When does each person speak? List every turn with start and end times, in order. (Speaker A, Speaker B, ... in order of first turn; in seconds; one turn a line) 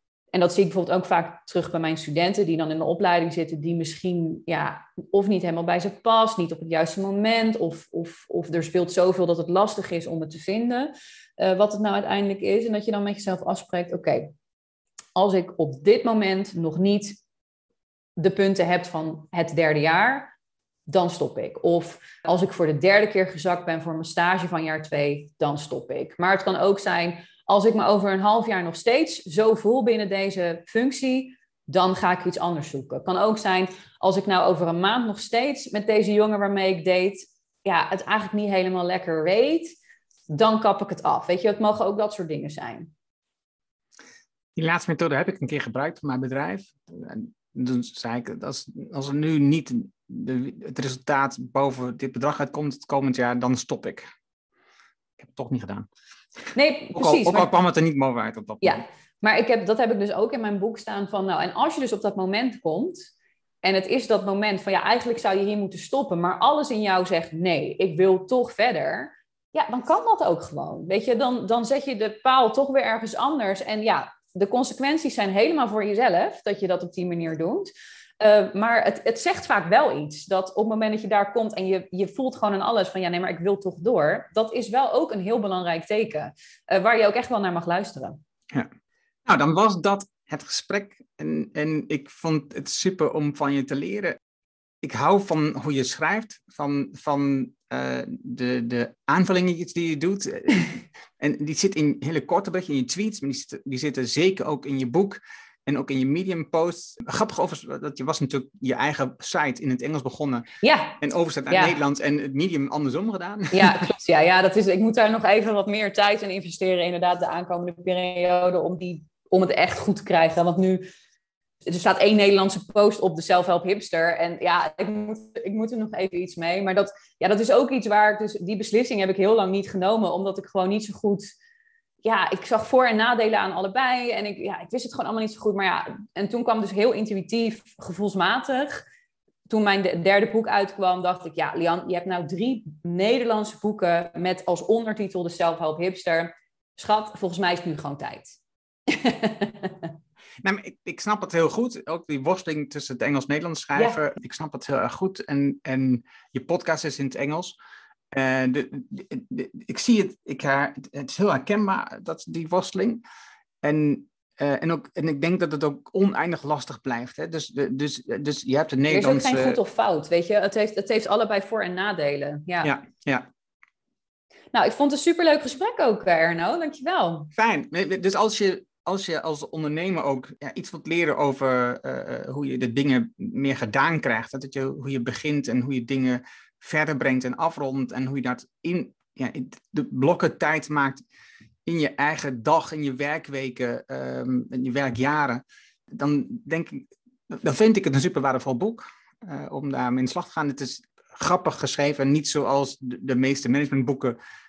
Speaker A: 0.3-14.3
Speaker A: 15.1-17.2
Speaker A: 18.2-20.3
Speaker A: 20.9-39.7
Speaker A: 40.3-42.9
Speaker B: 44.5-54.0
Speaker B: 55.2-55.9
Speaker A: 56.5-57.5
Speaker B: 56.9-58.8
Speaker A: 58.6-63.1
Speaker A: 63.6-88.2
Speaker B: 89.2-94.2
Speaker B: 94.8-110.5
Speaker A: 110.6-111.0
Speaker B: 111.0-113.9
Speaker A: 111.5-111.8
Speaker A: 113.5-120.8
Speaker A: 121.6-131.3
Speaker A: 132.0-138.8
Speaker A: 139.5-149.9
Speaker B: 150.4-157.6
Speaker B: 158.1-163.0
Speaker B: 163.6-169.6
Speaker A: 168.9-172.7
Speaker B: 172.6-173.3
Speaker A: 174.5-177.3
Speaker B: 177.3-191.0
Speaker B: 191.7-204.2